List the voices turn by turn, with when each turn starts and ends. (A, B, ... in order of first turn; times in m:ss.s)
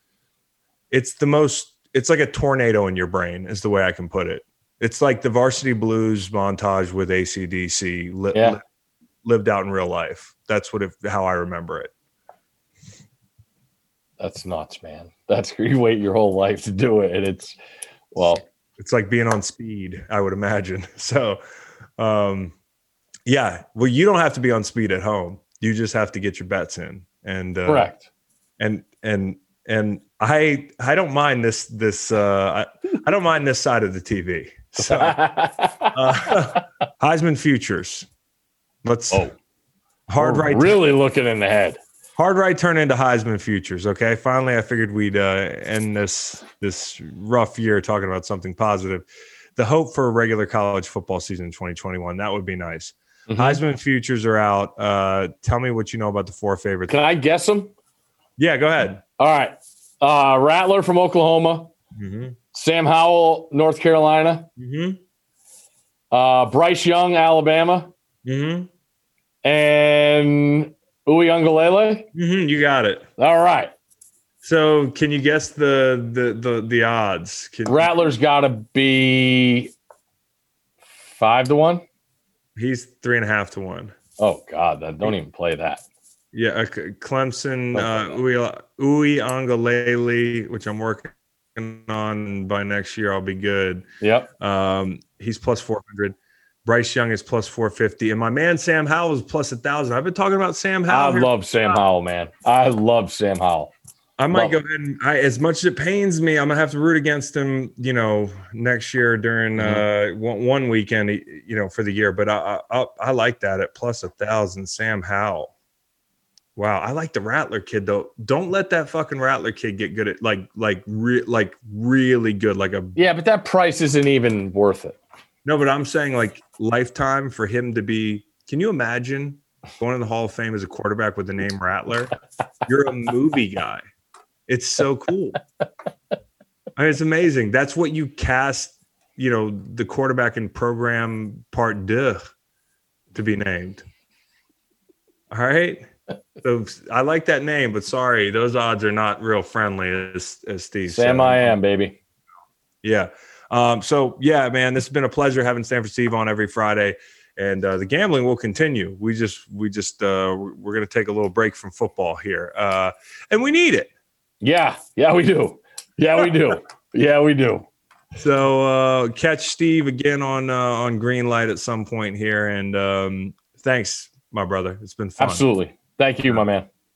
0:00.9-0:08.6 A
0:09.2-0:11.9 A
0:14.2-0:17.6 B
0:18.1-0:18.4 B
0:18.8-0:21.4 A
0:22.0-0:22.5 A
0:23.3-0:27.9 A
0:27.7-0:28.0 B
0:28.6-0:35.2 A
0:34.8-0:35.9 B
0:35.9-0:38.1 A
0:38.8-0:39.3 A
0:40.1-0:40.8 A
0:40.2-0:41.8 B
0:42.2-0:57.0 A
0:53.3-0:53.6 B
0:56.9-0:57.7 B
0:58.4-0:59.0 A
0:59.2-1:01.7 B
1:02.0-1:02.4 A
1:02.5-1:04.5 B
1:04.6-1:05.0 A
1:06.1-1:07.9 B
1:08.2-1:08.7 A
1:09.4-1:12.1 B
1:12.2-1:13.1 A
1:13.2-1:13.7 B
1:14.4-1:18.0 A
1:17.7-1:19.7 B
1:21.0-1:21.8 B
1:22.6-1:23.9 A
1:24.2-1:25.8 B
1:26.3-1:33.9 A
1:27.7-1:28.2 B
1:34.0-1:34.3 B
1:34.4-1:41.8 A
1:40.9-1:43.7 B
1:44.2-1:55.5 A
1:49.6-1:49.8 B
1:56.6-2:03.0 A
2:03.0-2:05.0 B
2:05.4-2:12.1 A
2:12.6-2:13.8 A
2:14.5-2:15.4 A
2:16.8-2:22.2 A
2:23.1-2:23.8 A
2:25.3-2:25.9 A
2:26.4-2:31.6 A
2:30.9-2:32.0 B
2:32.8-2:43.9 A
2:44.4-2:47.7 B
2:48.2-2:55.5 A
2:55.2-2:56.7 B